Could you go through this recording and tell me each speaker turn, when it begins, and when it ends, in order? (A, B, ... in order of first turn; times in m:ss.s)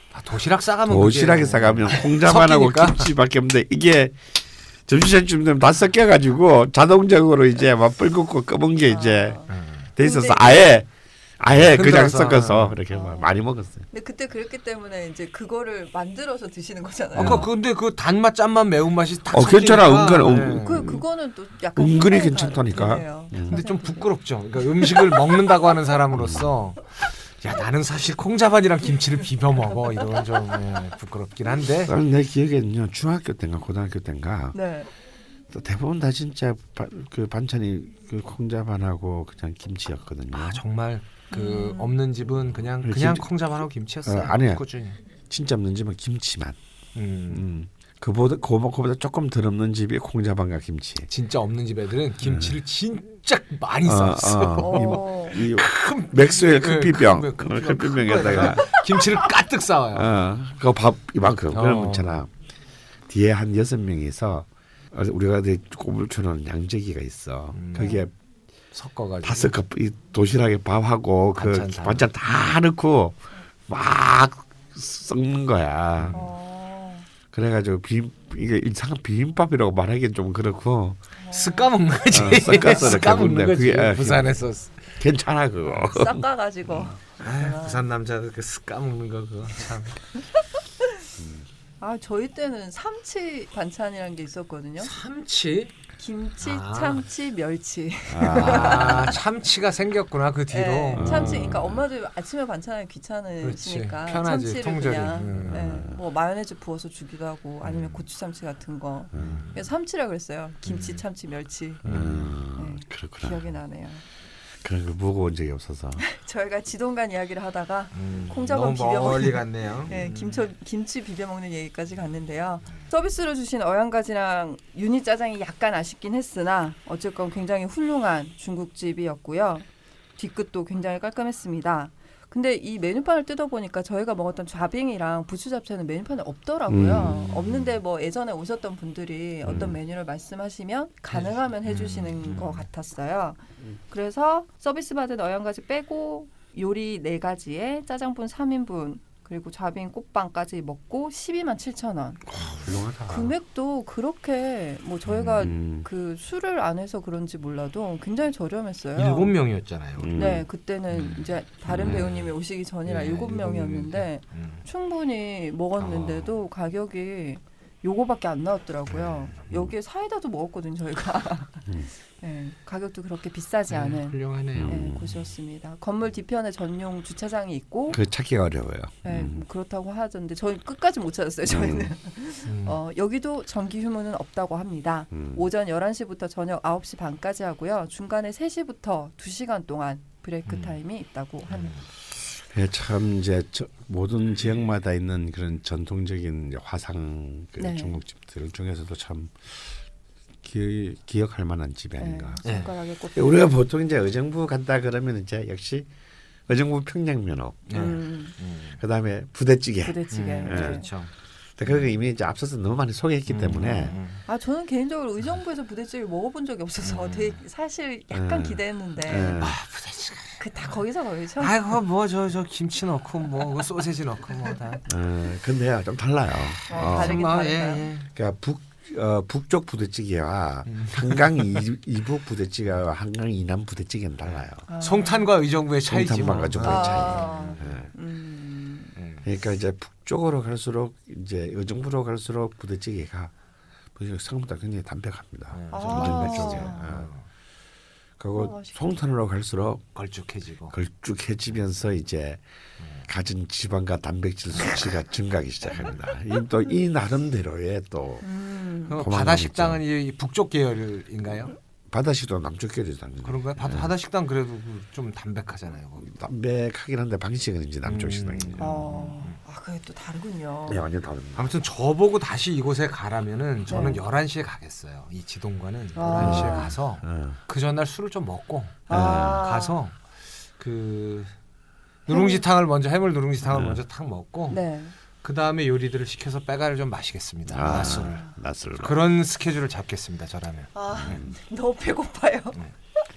0:00.1-0:03.1 A
0:00.8-0:04.2 B
0:04.9-0:09.4 B
0:08.8-0:10.7 C
0:09.5-0:09.9 A
0:10.0-0:10.9 B
0:11.4-0:13.8 B
0:11.5-0:12.8 A
0:12.9-0:13.3 C
0:13.9-0:17.5 C
0:17.1-0:17.5 B
0:17.2-0:20.9 A
0:19.3-0:21.0 B
0:20.6-0:24.1 C
0:21.7-0:23.6 B
0:23.5-0:32.0 A
0:26.1-0:26.5 B
0:31.8-0:34.6 B
0:34.5-0:34.9 C
0:35.5-0:40.6 B
0:40.3-0:45.0 A
0:41.3-0:42.0 C
0:42.8-0:43.3 B
0:44.0-0:44.6 B
0:45.3-0:46.6 B
0:46.9-0:47.4 A
0:47.3-0:51.1 B
0:51.1-1:00.2 A
0:52.2-0:52.6 B
0:53.8-0:58.8 B
0:54.6-0:55.4 C
0:59.9-1:02.3 B
1:01.5-1:02.2 A
1:03.1-1:08.1 B
1:07.5-1:08.0 A
1:07.8-1:08.0 C
1:08.7-1:09.5 A
1:09.2-1:16.2 B
1:11.4-1:12.1 A
1:16.0-1:16.3 A
1:16.1-1:17.1 C
1:17.3-1:21.0 B
1:21.2-1:21.8 C
1:21.3-1:24.9 A
1:22.1-1:24.4 B
1:22.5-1:22.9 C
1:25.0-1:26.8 B
1:25.9-1:27.8 C
1:27.2-1:30.0 A
1:31.2-1:31.4 B
1:31.8-1:34.9 C
1:34.8-1:35.7 A
1:36.0-1:39.2 C
1:36.4-1:37.0 A
1:38.1-1:39.1 B
1:38.3-1:41.6 A
1:40.5-1:51.8 C
1:40.9-1:41.8 B
1:43.4-1:45.9 A
1:45.3-1:46.0 B
1:47.6-1:48.0 A
1:49.1-1:49.5 B
1:49.1-1:49.6 A
1:50.6-1:51.0 A
1:51.8-1:52.4 A
1:51.8-1:53.5 B
1:52.5-1:54.0 C
1:54.6-1:56.0 B
1:56.0-2:09.6 C
1:57.9-2:00.5 A
2:10.2-2:39.4 C
2:16.7-2:17.3 B
2:17.0-2:17.8 A
2:19.4-2:19.8 B
2:21.1-2:22.7 A
2:32.3-2:33.3 B
2:35.1-2:35.5 A
2:35.4-2:35.9 B
2:38.9-2:40.1 A
2:40.0-2:40.4 B
2:40.1-2:51.7 C
2:40.9-2:41.2 A
2:41.7-2:42.1 B
2:41.7-2:44.6 A
2:45.8-2:46.3 A
2:48.9-2:49.4 A
2:52.2-2:58.0 C
2:53.7-2:55.0 A
2:54.5-2:55.1 B
2:57.9-2:59.4 B
2:59.0-3:11.8 C
3:01.4-3:01.9 B
3:02.4-3:02.8 A
3:05.1-3:05.4 B
3:10.4-3:10.8 A
3:11.5-3:11.8 A
3:12.4-3:19.8 B
3:17.6-3:18.0 C
3:20.4-3:25.9 B
3:22.0-3:23.5 C
3:22.4-3:22.7 A
3:26.5-3:27.9 B
3:27.7-3:28.8 A
3:27.7-3:28.3 C
3:28.8-3:30.8 B
3:29.8-3:30.9 C
3:30.1-3:31.1 A
3:31.6-3:34.0 B
3:33.3-3:34.2 A
3:34.3-3:39.4 C
3:36.8-3:37.4 A
3:38.1-3:39.6 B
3:39.4-3:40.7 A
3:40.4-3:41.6 C
3:41.4-3:44.8 A
3:44.9-3:47.2 B
3:46.7-3:47.9 C
3:46.7-3:48.1 A
3:48.1-3:54.6 B
3:50.7-3:51.6 A
3:54.2-3:57.8 A
3:54.7-3:55.3 C
3:55.9-3:57.9 B
3:56.6-3:58.9 C
3:59.0-3:59.3 A
3:59.2-4:03.3 B
4:03.9-4:07.1 B
4:05.5-4:07.2 A
4:05.7-4:06.9 C
4:08.2-4:09.8 B
4:08.3-4:09.0 C
4:09.9-4:10.7 A
4:10.7-4:12.4 B
4:13.0-4:18.2 B
4:18.2-4:19.0 C
4:18.9-4:21.6 A
4:18.9-4:19.8 B
4:21.9-4:23.9 B
4:23.2-4:26.1 A
4:26.0-4:28.8 B
4:27.8-4:29.4 A
4:28.6-4:30.8 C
4:30.7-4:31.5 B
4:31.4-4:41.3 A
4:33.7-4:34.0 C
4:36.0-4:36.7 C
4:36.1-4:37.4 B
4:38.9-4:39.8 C
4:38.9-4:39.4 B
4:42.1-4:44.6 A
4:42.1-4:42.4 C
4:43.5-4:43.8 B
4:44.5-4:44.9 C
4:45.2-4:48.2 A
4:47.5-4:49.0 B
4:47.6-4:48.3 C
4:48.8-4:50.7 A
4:50.7-4:52.6 C
4:50.9-4:51.3 B